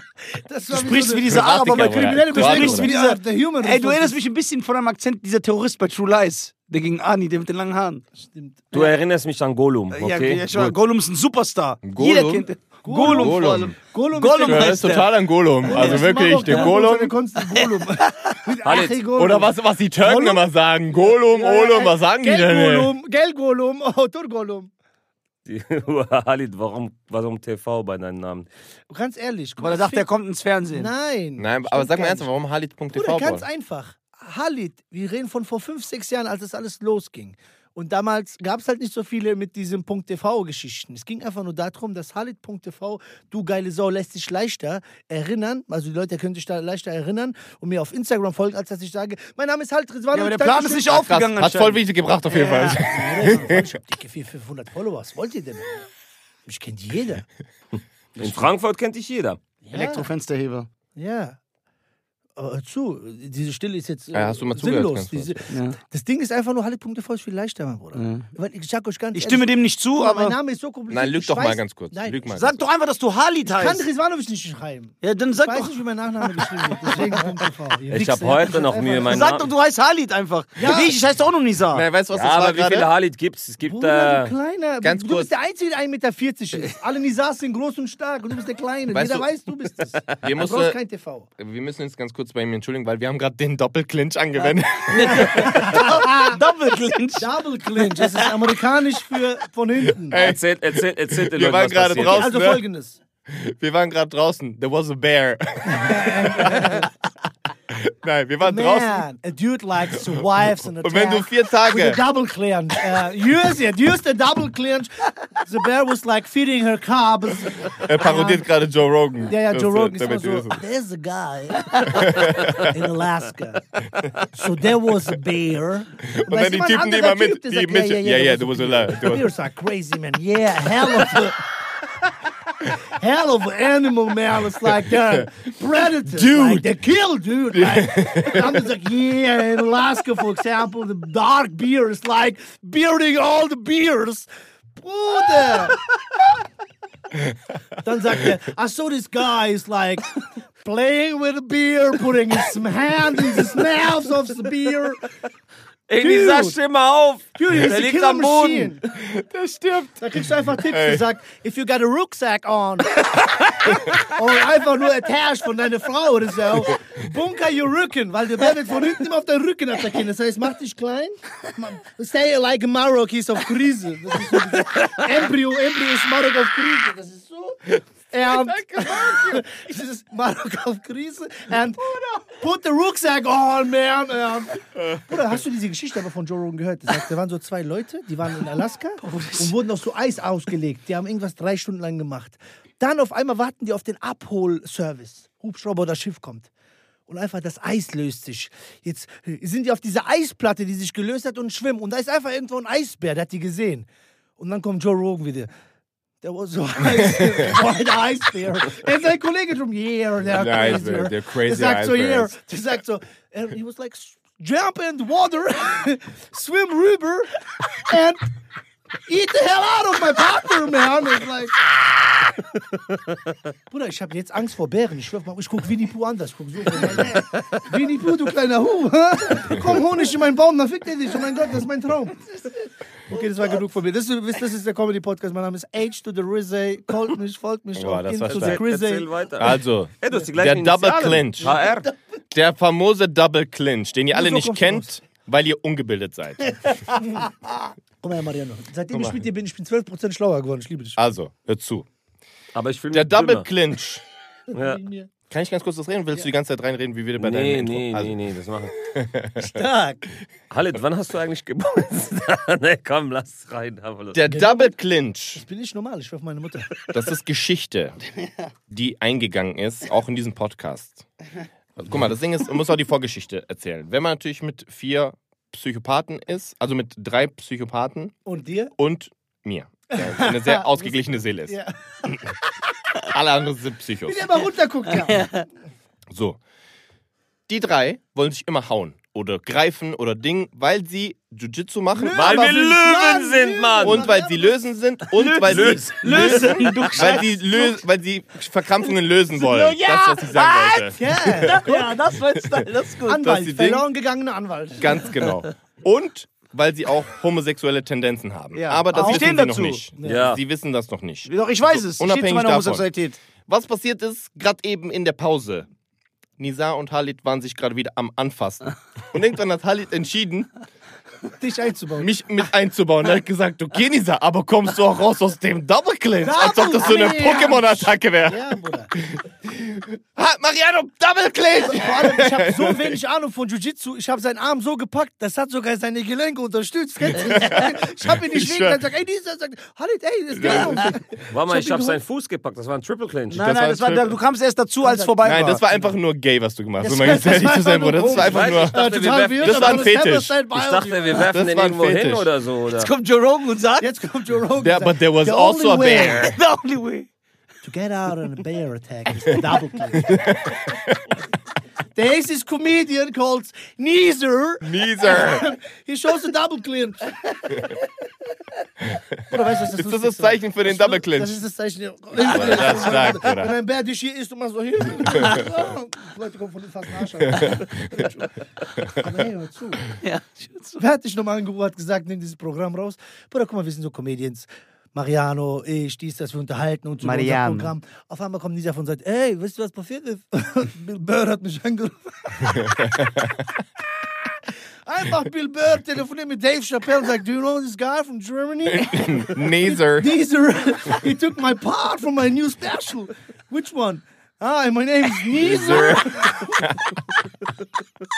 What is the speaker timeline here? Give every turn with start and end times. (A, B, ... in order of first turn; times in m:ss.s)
0:00.2-0:04.2 A
0:00.7-0:08.0 B
0:01.3-0:02.9 C
0:08.1-0:08.6 A
0:08.7-0:09.0 B
0:08.7-0:10.4 D
0:09.9-0:15.1 B
0:10.5-0:10.7 C
0:11.8-0:12.4 C
0:12.8-0:14.9 A
0:13.0-0:13.8 C
0:14.4-0:17.1 C
0:15.6-0:16.7 B
0:15.6-0:24.7 A
0:17.6-0:18.3 B
0:18.6-0:18.9 D
0:19.2-0:22.9 C
0:25.4-0:28.5 D
0:28.9-0:30.1 A
0:29.6-0:30.9 B
0:30.7-0:32.3 A
0:31.4-0:33.4 C
0:32.9-0:51.0 A
0:50.1-0:53.4 B
0:50.9-0:53.6 C
0:52.8-0:55.8 A
0:56.4-0:57.2 A
0:58.2-0:59.4 D
0:59.6-1:00.1 A
0:59.7-1:00.7 B
1:01.0-1:01.4 A
1:02.4-1:12.2 A
1:04.1-1:05.4 C
1:05.5-1:05.8 B
1:07.9-1:08.3 B
1:09.1-1:10.4 B
1:10.9-1:12.6 C
1:12.3-1:13.8 B
1:13.4-1:19.2 A
1:15.0-1:17.2 B
1:17.9-1:19.5 D
1:19.1-1:21.8 B
1:20.6-1:21.0 A
1:21.7-1:22.9 C
1:22.1-1:24.3 D
1:23.7-1:31.3 A
1:24.8-1:25.3 C
1:28.9-1:29.2 C
1:30.1-1:30.8 C
1:31.4-1:36.0 C
1:34.9-1:38.3 B
1:35.0-1:36.4 A
1:37.1-1:40.2 A
1:40.0-1:42.6 C
1:40.1-1:42.3 D
1:42.0-1:43.0 A
1:43.3-1:46.9 C
1:45.7-1:46.9 A
1:47.7-1:49.0 C
1:48.4-1:58.4 A
1:50.8-1:52.0 C
1:57.7-2:00.6 C
1:59.3-2:03.7 A
2:01.9-2:02.7 C
2:04.2-2:11.4 A
2:06.0-2:09.3 C
2:12.6-2:25.8 A
2:16.1-2:16.7 C
2:17.5-2:18.6 C
2:27.8-2:35.0 A
2:35.9-2:38.7 D
2:36.0-2:36.6 A
2:37.3-2:38.8 A
2:38.9-2:40.0 C
2:40.0-3:16.5 A
2:40.6-2:41.0 C
2:58.3-2:59.4 C
3:01.9-3:02.2 C
3:09.0-3:09.5 B
3:17.1-3:25.5 A
3:26.2-3:38.3 A
3:27.0-3:27.6 C
3:30.3-3:32.3 C
3:39.1-3:41.7 A
3:43.7-3:59.1 A
3:57.7-3:58.6 C
3:58.2-4:01.8 D
3:59.4-4:01.6 C
4:00.8-4:01.9 A
4:02.3-4:06.6 C
4:04.1-4:04.9 A
4:06.9-4:07.3 A
4:08.0-4:11.0 A
4:08.9-4:09.2 C
4:11.0-4:11.8 C
4:12.5-4:13.4 D
4:12.9-4:14.0 C
4:14.5-4:15.1 A
4:14.5-4:14.8 D
4:15.3-4:18.1 C
4:17.2-4:18.8 D
4:18.9-4:19.6 C
4:19.4-4:20.0 A
4:20.5-4:24.2 D
4:24.1-4:25.4 C
4:24.3-4:24.7 A
4:25.3-4:26.9 A
4:26.9-4:28.0 C
4:28.7-4:31.0 C
4:31.8-4:38.2 C
4:38.2-4:38.7 A
4:38.8-4:41.6 C
4:39.9-4:42.5 A
4:43.0-4:44.2 C
4:44.0-4:45.3 A
4:45.0-4:45.4 B
4:46.1-4:46.4 C
4:47.5-4:52.5 C
4:51.9-4:54.6 A
4:52.1-4:54.1 D
4:53.8-5:01.9 C
4:55.1-4:57.3 B
4:55.4-4:57.0 D
4:56.0-4:56.8 A
4:59.4-5:03.2 B
5:00.8-5:02.0 A
5:02.4-5:03.8 C
5:03.0-5:05.2 A
5:04.8-5:12.9 C
5:08.5-5:09.8 B
5:08.9-5:09.4 A
5:10.0-5:10.3 A
5:10.0-5:10.4 D
5:11.2-5:13.2 B
5:13.4-5:15.7 C
5:16.4-5:20.5 C
5:21.4-5:22.1 A
5:22.0-5:33.0 C
5:26.2-5:28.9 A
5:31.6-5:42.0 A
5:37.1-5:38.8 C
5:40.3-5:40.9 C
5:41.3-5:43.5 D
5:43.3-5:45.6 B
5:43.3-5:44.2 C
5:44.8-5:45.9 A
5:45.2-5:50.3 C
5:46.8-5:51.3 A
5:48.2-5:49.9 D
5:50.5-5:52.9 D
5:51.1-5:52.3 C
5:52.7-5:53.9 B
5:53.8-5:56.3 A
5:54.6-5:56.4 C
5:56.3-5:57.1 B
5:57.6-6:00.2 A
6:00.0-6:01.0 C
6:01.9-6:07.7 A
6:04.6-6:05.4 C
6:09.3-6:19.9 A
6:09.6-6:11.4 C
6:12.2-6:13.5 C
6:15.1-6:15.4 C
6:17.3-6:17.6 C
6:20.0-6:20.8 B
6:20.8-6:32.8 A
6:27.0-6:27.7 B
6:32.6-6:33.2 C
6:34.8-6:46.7 A
6:38.6-6:40.1 C
6:45.4-6:47.3 C